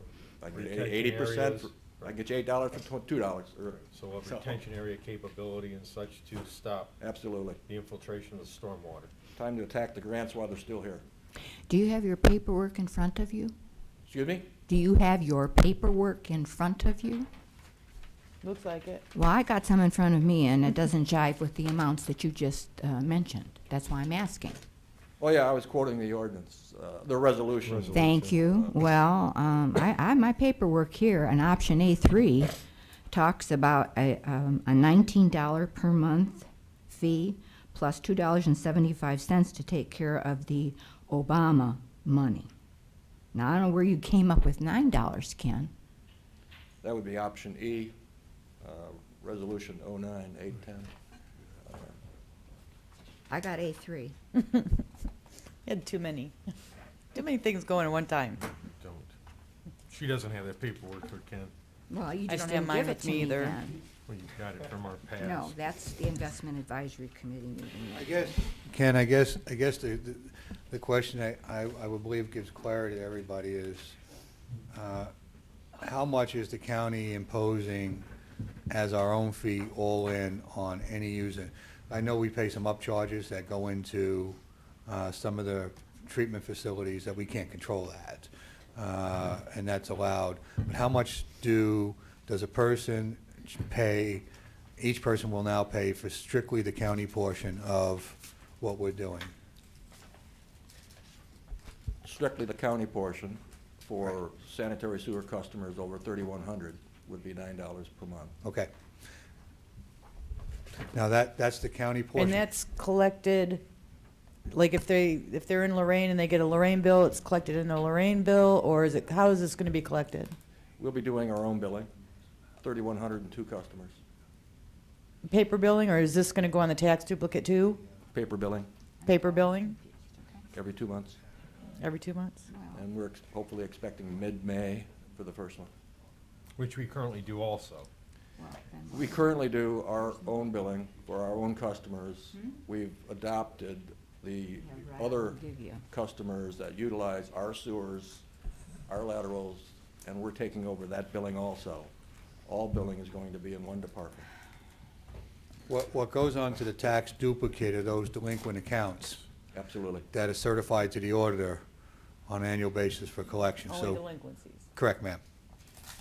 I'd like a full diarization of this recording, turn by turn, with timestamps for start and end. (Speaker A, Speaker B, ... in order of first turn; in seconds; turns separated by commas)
Speaker A: 0.4-4.5, Speaker B: 0.5-2.1, Speaker B: 3.9-7.0, Speaker A: 7.0-7.6, Speaker B: 7.7-9.1, Speaker A: 9.3-11.0, Speaker C: 11.7-13.5, Speaker A: 14.1-14.5, Speaker C: 14.7-17.3, Speaker D: 18.4-19.1, Speaker C: 19.1-24.6, Speaker A: 25.2-28.8, Speaker B: 27.6-28.5, Speaker C: 27.9-32.5, Speaker C: 33.1-42.5, Speaker C: 43.3-45.7, Speaker A: 46.8-48.0, Speaker A: 48.6-50.9, Speaker A: 51.6-52.0, Speaker C: 53.3-54.1, Speaker D: 54.4-54.7, Speaker D: 55.6-56.3, Speaker D: 57.1-58.5, Speaker B: 58.6-59.1, Speaker B: 59.9-61.5, Speaker C: 61.9-63.8, Speaker D: 62.3-63.6, Speaker B: 64.0-65.6, Speaker C: 65.2-68.4, Speaker E: 67.9-74.0, Speaker E: 74.7-75.1, Speaker E: 75.8-78.0, Speaker E: 78.7-94.2, Speaker E: 94.8-99.3, Speaker A: 102.0-108.3, Speaker E: 108.4-108.7, Speaker E: 110.9-112.4, Speaker D: 112.1-113.6, Speaker D: 114.5-120.3, Speaker A: 120.8-121.9, Speaker A: 122.6-124.0, Speaker D: 125.2-127.8, Speaker A: 128.1-128.7, Speaker C: 129.0-130.5, Speaker D: 129.1-129.8, Speaker A: 130.5-131.2, Speaker D: 131.8-132.5, Speaker C: 132.5-132.8, Speaker A: 132.7-135.7, Speaker B: 136.6-137.9, Speaker C: 138.4-139.3, Speaker A: 138.9-148.2, Speaker C: 144.6-145.8, Speaker A: 148.9-151.9, Speaker A: 152.4-154.3, Speaker E: 155.7-159.2, Speaker A: 159.5-160.1, Speaker E: 160.1-161.6, Speaker E: 162.3-164.0, Speaker D: 163.7-164.7, Speaker E: 164.7-165.2